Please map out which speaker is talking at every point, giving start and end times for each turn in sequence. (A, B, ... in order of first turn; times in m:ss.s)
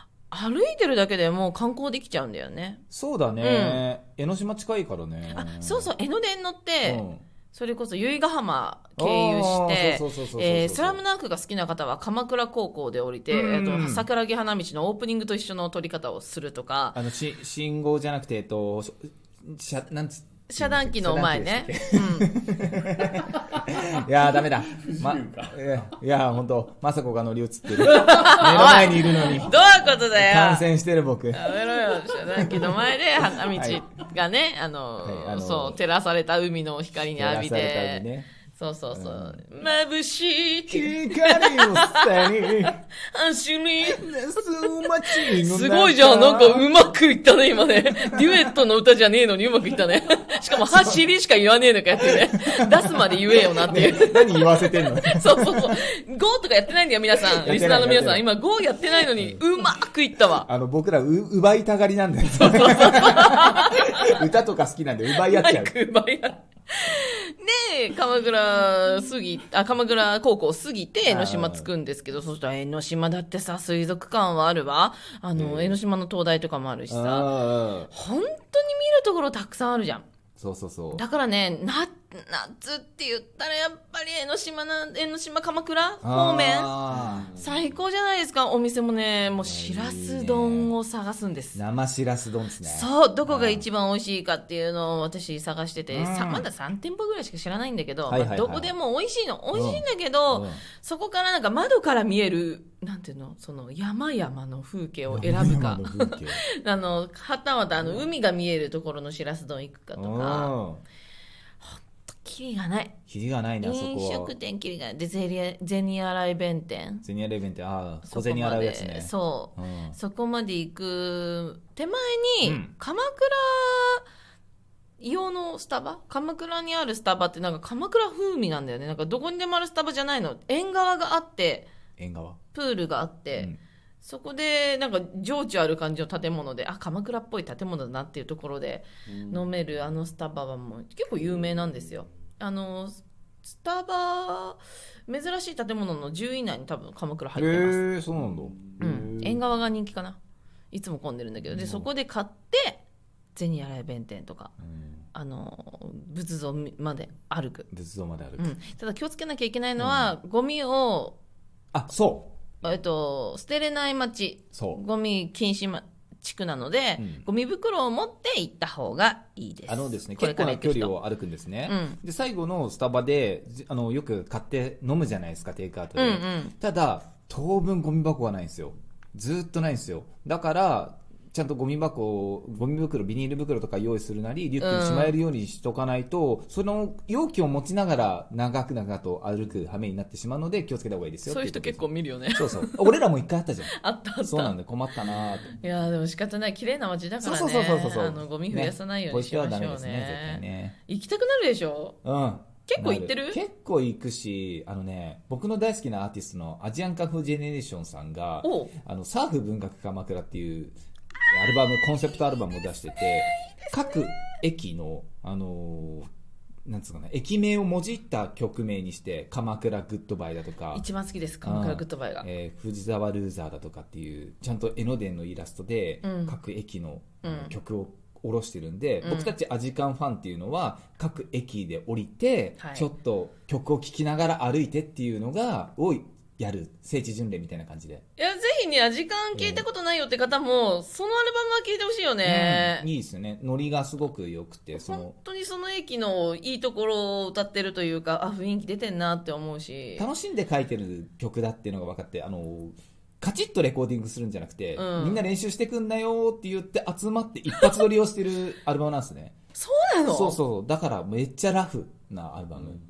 0:00.3-0:02.8 A
0:02.9-0:05.9 B
0:03.4-0:03.8 A
0:05.3-0:17.0 A
0:06.8-0:07.2 B
0:09.0-0:11.0 B
0:13.3-0:14.1 B
0:17.0-0:31.7 B
0:20.5-0:22.4 A
0:27.8-0:30.7 A
0:31.3-1:00.5 A
0:32.2-0:33.8 B
0:35.0-0:35.8 B
0:37.0-0:38.3 B
0:38.9-0:39.4 B
0:40.7-0:42.8 B
0:43.8-0:46.7 B
0:47.9-0:48.5 B
0:50.5-0:51.0 B
0:52.4-0:55.7 B
0:57.4-0:58.2 B
0:59.2-0:59.4 B
1:00.4-1:05.8 B
1:02.4-1:04.2 A
1:05.1-1:17.3 A
1:11.1-1:11.7 B
1:15.4-1:15.8 B
1:16.9-1:17.9 B
1:17.9-1:20.1 A
1:20.4-1:21.0 B
1:20.9-1:26.8 A
1:26.0-1:27.3 B
1:27.4-1:31.6 A
1:29.4-1:30.7 B
1:31.6-1:33.7 B
1:32.6-1:50.5 A
1:35.9-1:36.5 B
1:38.1-1:38.7 B
1:39.5-1:40.6 B
1:45.1-1:46.4 B
1:47.8-1:48.1 B
1:50.0-1:50.8 B
1:51.6-1:53.0 A
1:53.1-1:54.3 B
1:53.6-1:57.0 A
1:57.0-2:00.0 B
1:58.1-2:04.1 A
2:02.4-2:02.7 B
2:05.0-2:11.7 A
2:12.0-2:12.4 B
2:12.5-2:27.8 A
2:27.4-2:29.4 B
2:28.8-2:30.2 A
2:30.7-2:32.8 A
2:31.5-2:31.9 B
2:33.4-2:34.5 A
2:34.7-2:35.0 B
2:35.1-2:37.7 A
2:37.7-2:38.5 B
2:38.4-2:41.2 A
2:39.8-2:40.1 B
2:41.7-2:42.3 B
2:42.6-2:50.9 A
2:44.6-2:44.8 B
2:47.0-2:47.3 B
2:49.7-3:11.8 B
2:51.7-2:52.0 A
2:56.0-2:56.6 A
3:04.6-3:05.2 A
3:11.3-3:13.0 A
3:12.4-3:13.7 B
3:13.7-3:14.6 A
3:14.2-3:15.6 B
3:15.5-3:22.0 A
3:17.2-3:20.8 B
3:22.0-3:30.8 B
3:22.7-3:23.4 A
3:28.4-3:28.8 A
3:31.3-3:36.1 B
3:33.3-3:34.2 A
3:36.7-3:40.9 B
3:40.7-3:42.3 A
3:41.4-3:58.0 B
3:46.0-3:46.4 A
3:47.2-3:47.5 A
3:49.0-3:49.3 A
3:52.6-3:52.9 A
3:58.2-4:02.9 A
3:59.3-3:59.7 B
4:02.2-4:05.2 B
4:04.8-4:10.1 A
4:10.0-4:19.4 B
4:14.8-4:15.3 A
4:17.6-4:17.8 A
4:19.6-4:20.4 A
4:20.1-4:22.8 B